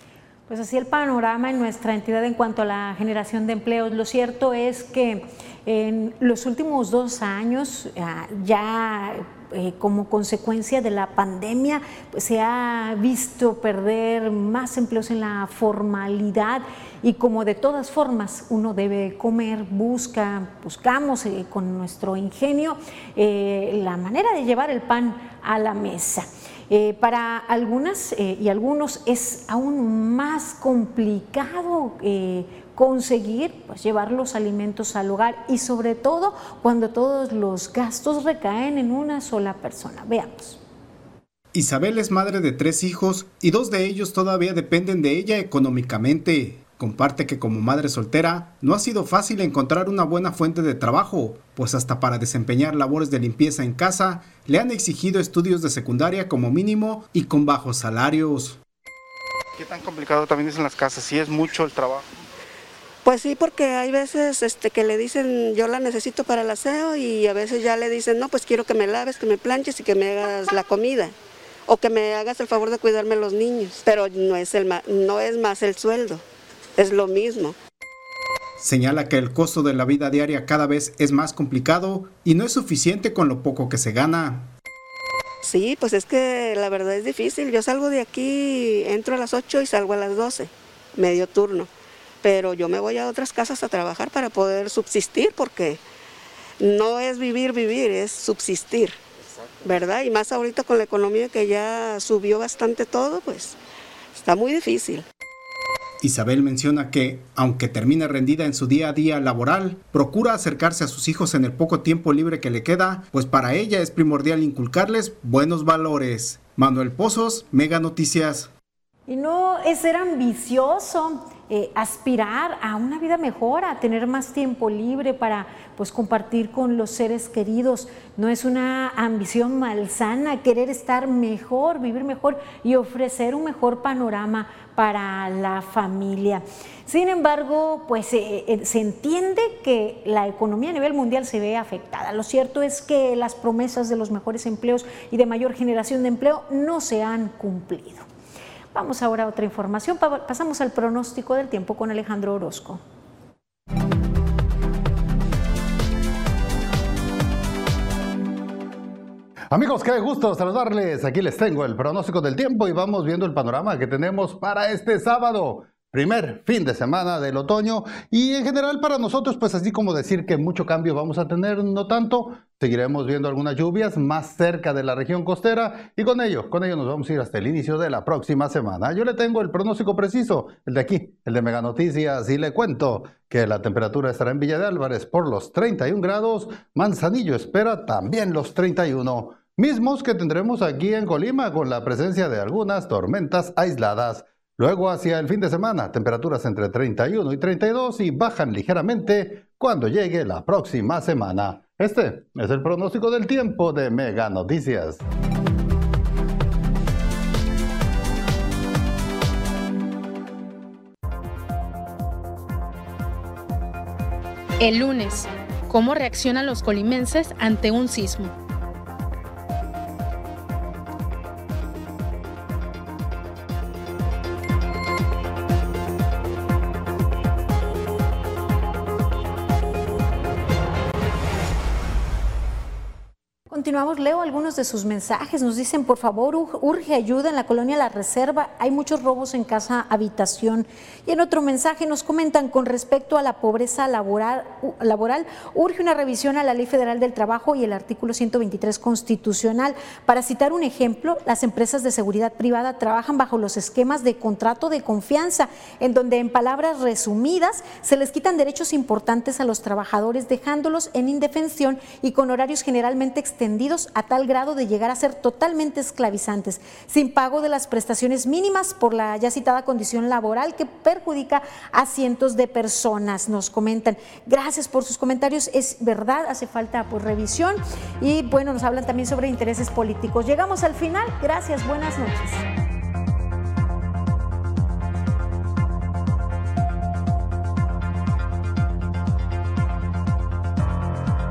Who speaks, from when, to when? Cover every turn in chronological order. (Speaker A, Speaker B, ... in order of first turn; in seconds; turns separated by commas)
Speaker A: 0.5-40.6, Speaker B: 41.5-58.6, Speaker C: 59.6-62.1, Speaker D: 63.0-71.1, Speaker D: 71.7-76.2, Speaker D: 76.8-77.6, Speaker B: 78.6-84.5, Speaker D: 85.4-91.7, Speaker D: 92.2-95.8, Speaker D: 96.6-99.0, Speaker D: 99.6-103.6, Speaker D: 104.2-105.0, Speaker B: 106.0-118.5, Speaker A: 119.1-148.1, Speaker A: 148.7-152.8, Speaker E: 159.5-205.0, Speaker F: 214.6-218.3, Speaker A: 233.5-282.5